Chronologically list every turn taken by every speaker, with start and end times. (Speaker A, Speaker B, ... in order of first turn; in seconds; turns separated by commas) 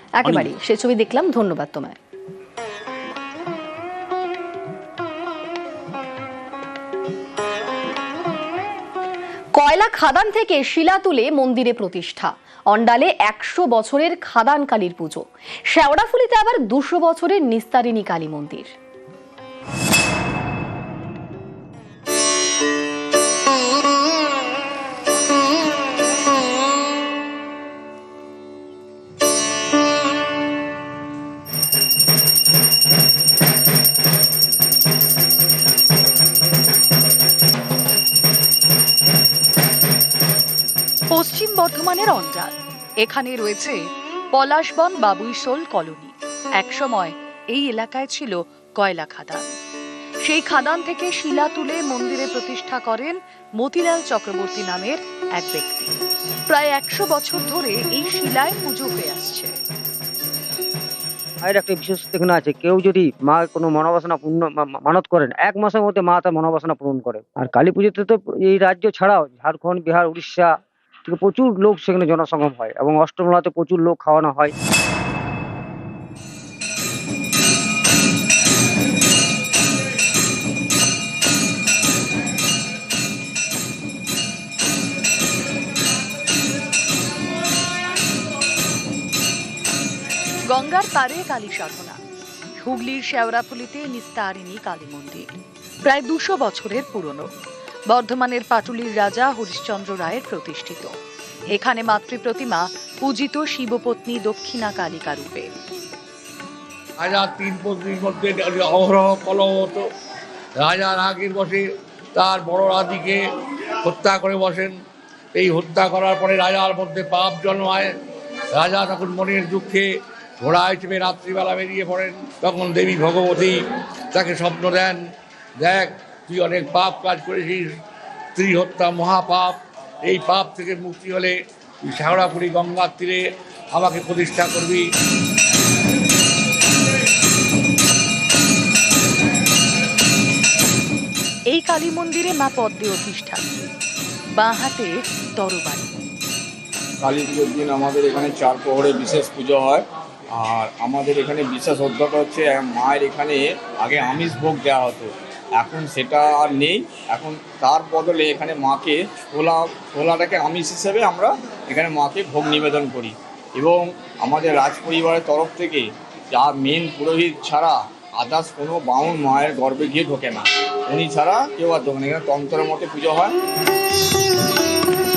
Speaker A: 0.2-2.0, Speaker A: 9.6-18.7, Speaker B: 41.1-43.8, Speaker B: 44.3-49.5, Speaker B: 50.2-56.0, Speaker B: 56.5-59.5, Speaker C: 61.4-74.5, Speaker B: 90.5-92.0, Speaker B: 92.6-95.3, Speaker B: 95.8-97.3, Speaker B: 97.9-100.9, Speaker B: 101.5-105.5, Speaker D: 107.0-109.9, Speaker D: 110.6-113.2, Speaker D: 113.8-114.8, Speaker D: 115.3-118.0, Speaker D: 118.5-119.9, Speaker D: 120.4-123.6, Speaker D: 124.1-125.0, Speaker D: 125.6-127.8, Speaker D: 128.3-134.8, Speaker B: 141.5-143.5, Speaker B: 144.4-145.9, Speaker E: 147.0-173.3